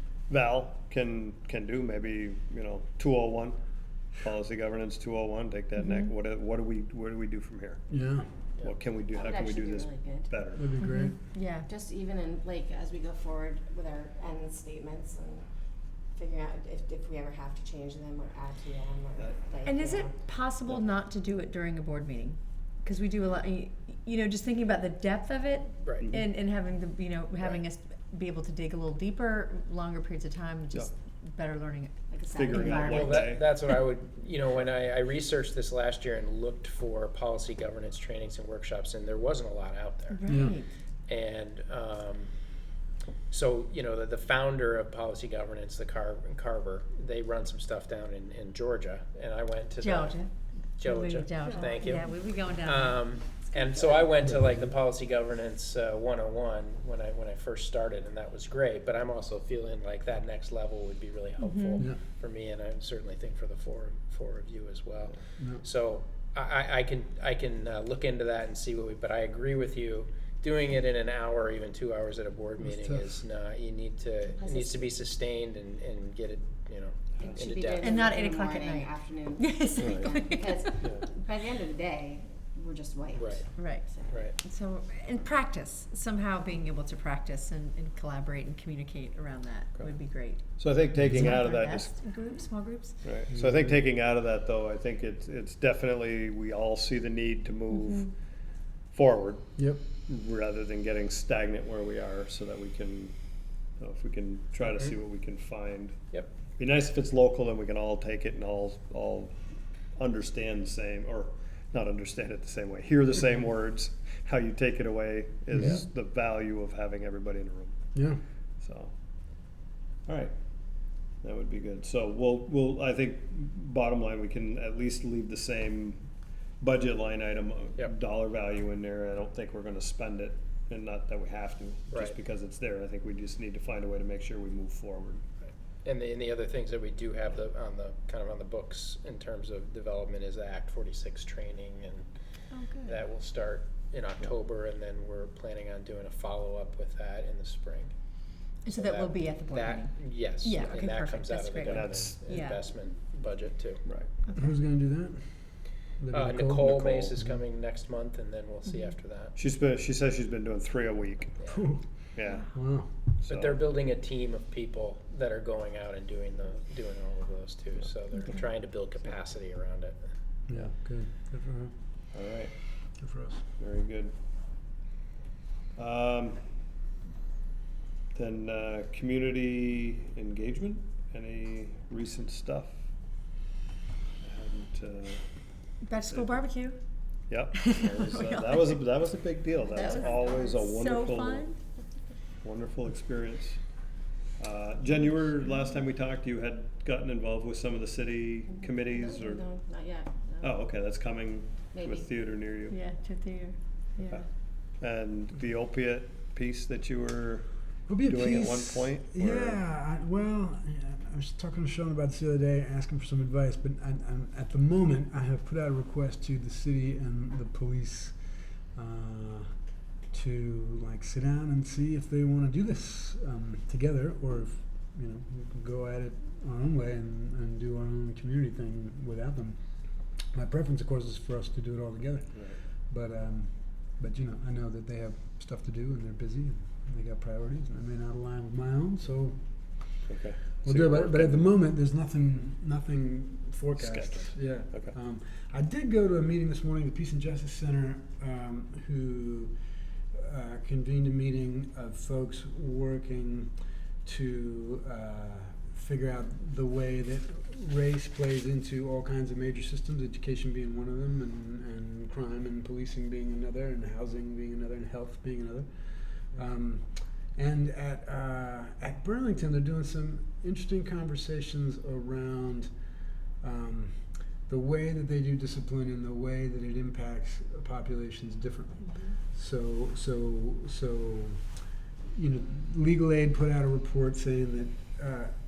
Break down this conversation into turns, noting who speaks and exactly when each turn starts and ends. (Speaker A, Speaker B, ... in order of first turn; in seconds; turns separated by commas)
Speaker A: 0.3-3.6, Speaker A: 4.2-7.8, Speaker B: 5.8-6.1, Speaker C: 7.9-8.3, Speaker A: 8.6-10.7, Speaker D: 9.1-10.4, Speaker C: 10.5-11.2, Speaker B: 10.8-11.7, Speaker D: 11.7-15.5, Speaker D: 16.1-20.1, Speaker B: 19.6-33.3, Speaker A: 20.6-20.9, Speaker E: 25.8-26.1, Speaker D: 32.1-33.1, Speaker A: 32.3-33.5, Speaker E: 32.7-40.2, Speaker B: 40.1-40.7, Speaker C: 40.3-40.6, Speaker E: 41.1-42.3, Speaker E: 43.3-50.2, Speaker B: 49.8-54.1, Speaker E: 50.8-78.0, Speaker C: 54.2-54.8, Speaker B: 61.4-61.8, Speaker C: 65.4-65.6, Speaker C: 72.6-73.2, Speaker D: 74.4-74.9, Speaker D: 77.2-84.3, Speaker B: 77.8-80.8, Speaker A: 79.8-80.1, Speaker A: 80.8-81.1, Speaker E: 83.1-83.5, Speaker B: 83.5-93.1, Speaker E: 84.1-84.3, Speaker A: 90.6-91.9, Speaker C: 91.0-91.3, Speaker A: 93.0-98.1, Speaker C: 93.3-93.8, Speaker B: 97.7-98.1, Speaker A: 98.9-99.5, Speaker C: 99.5-99.9, Speaker A: 100.0-103.2, Speaker A: 103.8-106.0, Speaker E: 104.6-104.9, Speaker A: 106.6-109.3, Speaker A: 109.9-117.9, Speaker C: 115.5-115.8, Speaker C: 117.9-118.2, Speaker A: 118.6-118.9, Speaker A: 120.0-120.3, Speaker A: 121.2-135.2, Speaker E: 131.9-132.2, Speaker E: 135.8-142.1, Speaker B: 142.5-143.0, Speaker E: 142.8-147.9, Speaker B: 148.6-152.7, Speaker E: 148.7-153.8, Speaker A: 151.7-152.3, Speaker A: 153.8-154.1, Speaker C: 154.3-155.4, Speaker C: 156.0-157.4, Speaker E: 156.1-159.3, Speaker A: 159.3-161.4, Speaker E: 161.4-161.6, Speaker C: 161.5-161.9, Speaker A: 162.1-162.4, Speaker C: 162.5-163.1, Speaker A: 163.2-163.6, Speaker E: 163.3-170.0, Speaker C: 170.5-171.7, Speaker A: 172.1-172.5, Speaker C: 173.0-173.4, Speaker A: 173.6-174.1, Speaker A: 175.7-176.4, Speaker A: 178.1-182.8, Speaker A: 184.2-185.2, Speaker B: 185.8-186.8, Speaker A: 186.0-186.5, Speaker A: 187.3-191.5, Speaker B: 187.5-188.8, Speaker B: 189.7-191.6, Speaker A: 192.4-193.7, Speaker A: 194.4-199.5, Speaker D: 198.5-200.6, Speaker A: 200.4-202.7, Speaker D: 201.7-202.1, Speaker B: 202.7-204.2, Speaker A: 204.8-207.5, Speaker C: 207.9-219.6, Speaker A: 208.0-209.6, Speaker C: 220.1-229.6, Speaker C: 230.3-240.1, Speaker A: 240.1-241.5, Speaker C: 240.6-249.6, Speaker A: 243.8-244.9, Speaker C: 250.1-272.7, Speaker C: 273.4-281.5, Speaker C: 282.1-285.3